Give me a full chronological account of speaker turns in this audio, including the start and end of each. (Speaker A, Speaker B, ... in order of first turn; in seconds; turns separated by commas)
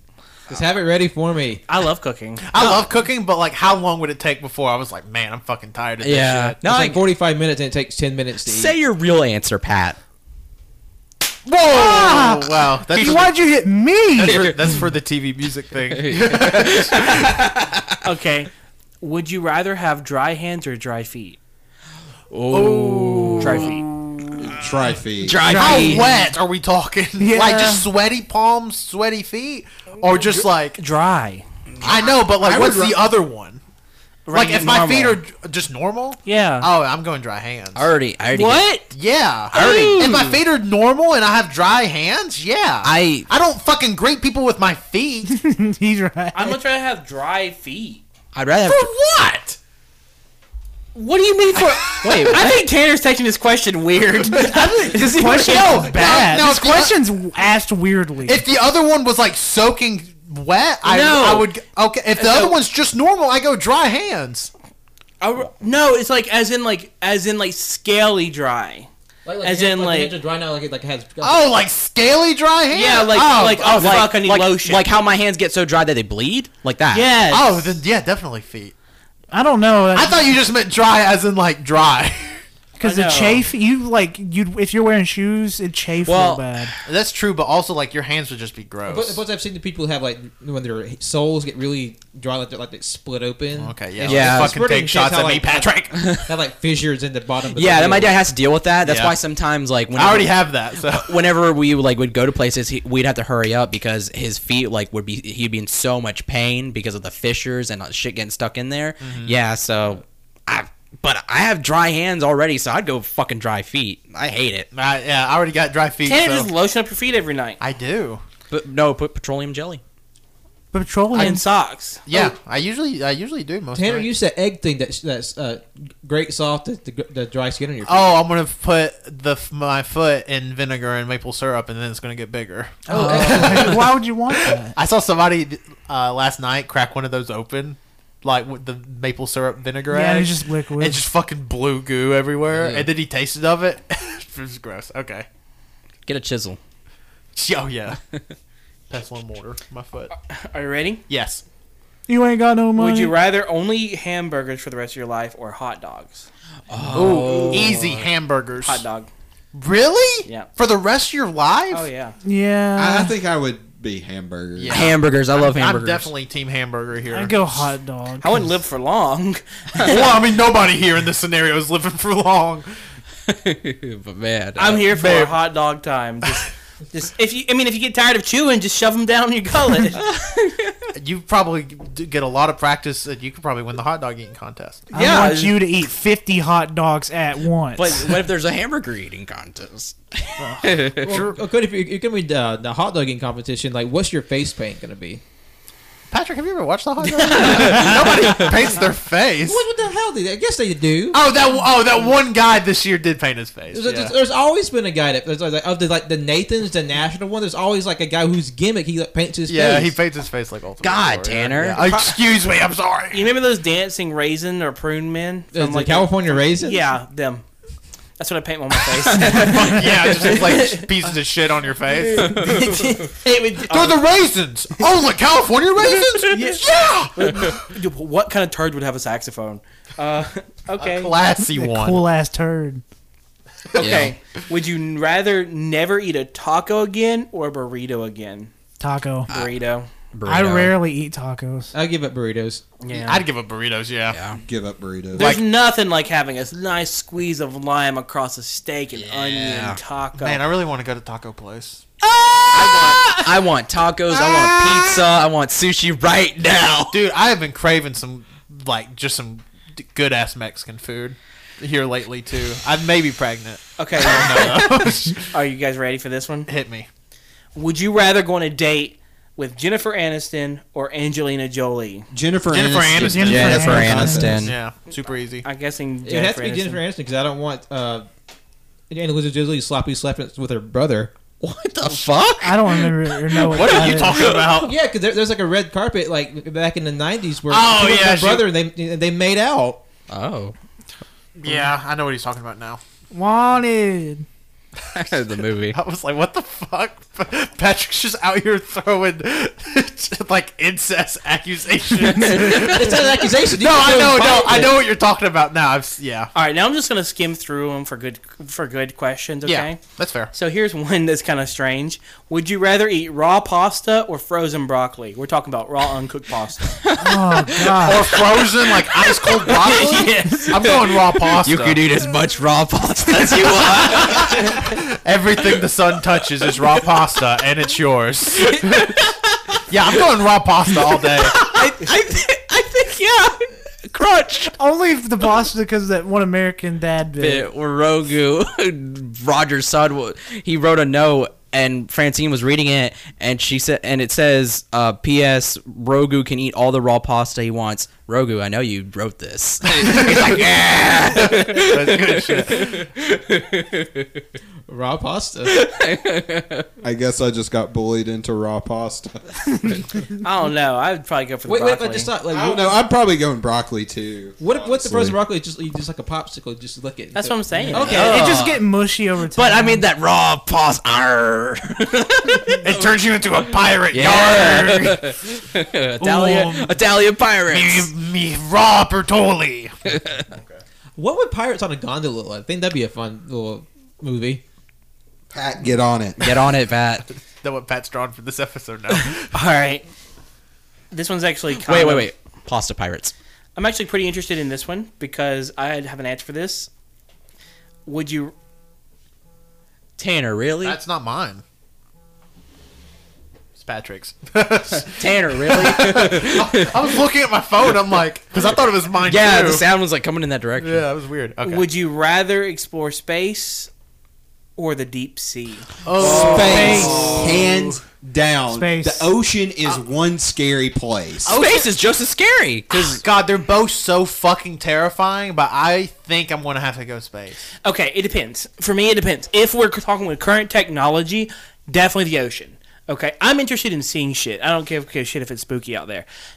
Speaker A: 0.5-1.6, Speaker B: 1.7-2.5, Speaker C: 2.4-6.6, Speaker D: 2.6-2.9, Speaker D: 6.0-7.0, Speaker A: 6.6-8.8, Speaker D: 8.4-10.0, Speaker C: 11.5-13.4, Speaker E: 11.7-14.5, Speaker C: 14.2-17.4, Speaker D: 14.2-14.8, Speaker D: 15.9-18.0, Speaker B: 18.0-18.5, Speaker B: 19.0-21.4, Speaker D: 22.3-24.6, Speaker C: 22.5-23.7, Speaker B: 23.4-23.9, Speaker F: 24.4-25.5, Speaker D: 25.2-26.1, Speaker B: 25.4-26.1, Speaker E: 25.4-26.2, Speaker C: 25.5-30.8, Speaker E: 27.2-27.9, Speaker B: 30.2-31.4, Speaker C: 31.8-33.6, Speaker F: 32.1-33.0, Speaker B: 34.3-35.2, Speaker C: 34.3-37.9, Speaker B: 36.2-36.7, Speaker D: 37.8-38.7, Speaker B: 38.3-38.9, Speaker C: 38.9-45.3, Speaker B: 39.5-40.4, Speaker D: 42.8-43.3, Speaker E: 45.3-46.6, Speaker B: 46.3-48.0, Speaker D: 48.3-48.9, Speaker C: 48.6-49.6, Speaker B: 51.0-56.2, Speaker C: 51.6-52.4, Speaker D: 51.6-52.6, Speaker E: 54.3-58.4, Speaker C: 55.5-57.0, Speaker C: 58.3-64.5, Speaker B: 60.8-61.5, Speaker B: 62.2-62.6, Speaker B: 65.2-68.9, Speaker A: 69.2-71.5, Speaker B: 69.4-70.2, Speaker C: 71.2-74.2, Speaker B: 72.7-74.9, Speaker D: 73.7-77.1, Speaker B: 76.9-77.8, Speaker C: 77.3-78.7, Speaker E: 79.3-80.3, Speaker C: 80.0-82.4, Speaker E: 82.8-86.7, Speaker B: 82.8-83.5, Speaker D: 86.0-86.8, Speaker C: 86.9-89.2, Speaker A: 88.9-98.2, Speaker C: 93.5-96.1, Speaker D: 94.0-94.6, Speaker D: 95.9-96.3, Speaker D: 97.5-114.7, Speaker C: 98.8-99.2, Speaker C: 100.0-101.2, Speaker C: 109.0-109.3, Speaker C: 114.7-116.5, Speaker B: 116.0-117.6, Speaker C: 117.6-118.2, Speaker D: 118.5-119.8, Speaker E: 120.7-121.4, Speaker B: 121.1-122.0, Speaker C: 122.1-124.1, Speaker A: 123.7-128.1, Speaker C: 127.8-145.3, Speaker E: 132.9-134.8, Speaker A: 132.9-133.8, Speaker E: 139.9-141.0, Speaker A: 142.6-142.9, Speaker D: 146.1-146.6, Speaker C: 147.4-148.0, Speaker C: 148.9-150.1, Speaker B: 150.3-151.0, Speaker C: 151.1-151.4, Speaker E: 152.1-153.2, Speaker B: 152.8-156.3, Speaker D: 156.7-157.9, Speaker B: 156.9-158.0, Speaker C: 156.9-158.8, Speaker B: 158.6-159.1, Speaker C: 159.5-161.9, Speaker B: 160.3-160.5, Speaker B: 161.7-162.2, Speaker E: 162.2-163.2, Speaker F: 162.8-164.9, Speaker C: 164.6-167.7, Speaker D: 164.7-166.1, Speaker E: 167.1-168.4, Speaker B: 168.2-170.1, Speaker C: 169.8-172.7, Speaker D: 173.3-174.9, Speaker B: 174.6-180.3, Speaker C: 174.9-175.4, Speaker C: 180.9-184.9, Speaker E: 184.9-188.2, Speaker D: 184.9-185.6, Speaker D: 187.8-191.2, Speaker A: 191.0-195.2, Speaker C: 196.1-199.6, Speaker B: 197.2-198.3, Speaker D: 197.4-198.3, Speaker A: 199.4-201.2, Speaker C: 201.1-204.2, Speaker A: 203.7-210.0, Speaker C: 209.5-213.3, Speaker D: 210.8-212.2, Speaker B: 213.1-217.5, Speaker A: 215.5-216.9, Speaker B: 218.2-220.9, Speaker D: 219.1-220.4, Speaker C: 219.2-222.6, Speaker A: 222.3-223.6, Speaker B: 223.6-224.0, Speaker C: 223.7-227.7, Speaker B: 226.3-226.6, Speaker B: 227.2-231.2, Speaker C: 230.8-232.0, Speaker E: 231.4-232.8, Speaker C: 233.7-234.1, Speaker B: 233.8-238.5, Speaker D: 233.8-234.1, Speaker E: 238.8-239.3, Speaker B: 239.3-239.9, Speaker D: 239.3-239.5, Speaker D: 240.1-240.8, Speaker E: 240.3-241.7, Speaker A: 241.7-242.6, Speaker B: 242.8-243.3, Speaker C: 242.9-244.2, Speaker D: 244.1-244.4, Speaker F: 244.4-245.3, Speaker B: 245.2-250.4, Speaker C: 245.2-245.4, Speaker D: 248.9-249.8, Speaker C: 250.2-251.8, Speaker D: 252.5-257.0, Speaker B: 252.5-253.2, Speaker C: 256.9-265.3, Speaker B: 263.8-266.5, Speaker C: 266.5-266.9, Speaker B: 267.6-272.1, Speaker F: 272.1-274.5, Speaker C: 272.5-275.5, Speaker E: 273.0-274.4, Speaker D: 273.1-274.6, Speaker B: 275.4-276.8, Speaker A: 276.0-278.1, Speaker A: 278.9-281.1, Speaker D: 281.4-284.5, Speaker E: 282.4-284.2, Speaker C: 283.5-284.8, Speaker A: 284.5-289.8, Speaker C: 287.5-288.5, Speaker D: 290.1-290.6, Speaker C: 291.4-292.8, Speaker E: 293.1-294.3, Speaker D: 294.9-295.8, Speaker C: 295.7-306.3, Speaker D: 302.2-302.8, Speaker A: 302.3-304.9, Speaker B: 306.4-316.8, Speaker C: 309.4-310.3, Speaker D: 316.8-324.7, Speaker E: 317.0-318.1, Speaker C: 317.8-321.8, Speaker C: 323.4-329.0, Speaker D: 328.5-329.6, Speaker C: 329.7-331.4, Speaker D: 330.7-334.5, Speaker E: 334.5-337.5, Speaker D: 337.2-354.2, Speaker C: 349.8-350.4, Speaker C: 351.1-352.9, Speaker A: 354.7-355.6, Speaker D: 355.4-356.7, Speaker F: 356.8-359.8, Speaker B: 360.2-362.1, Speaker A: 361.5-362.7, Speaker F: 362.3-365.2, Speaker A: 364.4-368.4, Speaker B: 367.1-368.5, Speaker D: 367.7-368.6, Speaker E: 367.8-369.9, Speaker D: 369.3-372.6, Speaker C: 372.6-375.2, Speaker D: 373.9-377.9, Speaker C: 376.0-376.7, Speaker C: 377.5-380.6, Speaker A: 381.0-384.4, Speaker F: 385.3-386.3, Speaker D: 386.2-387.1, Speaker C: 387.4-389.3, Speaker B: 389.3-389.9, Speaker B: 390.9-392.1, Speaker D: 391.6-393.1, Speaker B: 393.6-396.7, Speaker B: 397.9-398.3, Speaker D: 400.0-400.8, Speaker C: 400.6-401.4, Speaker C: 403.6-409.7, Speaker D: 404.8-407.0, Speaker D: 409.0-410.9, Speaker C: 410.6-411.7, Speaker B: 411.4-413.7, Speaker B: 414.6-415.8, Speaker C: 415.8-417.2, Speaker D: 416.0-417.6, Speaker F: 416.0-421.4, Speaker E: 416.3-417.1, Speaker E: 418.5-419.1, Speaker C: 421.3-421.7, Speaker D: 421.3-423.0, Speaker C: 422.7-427.5, Speaker B: 427.6-436.1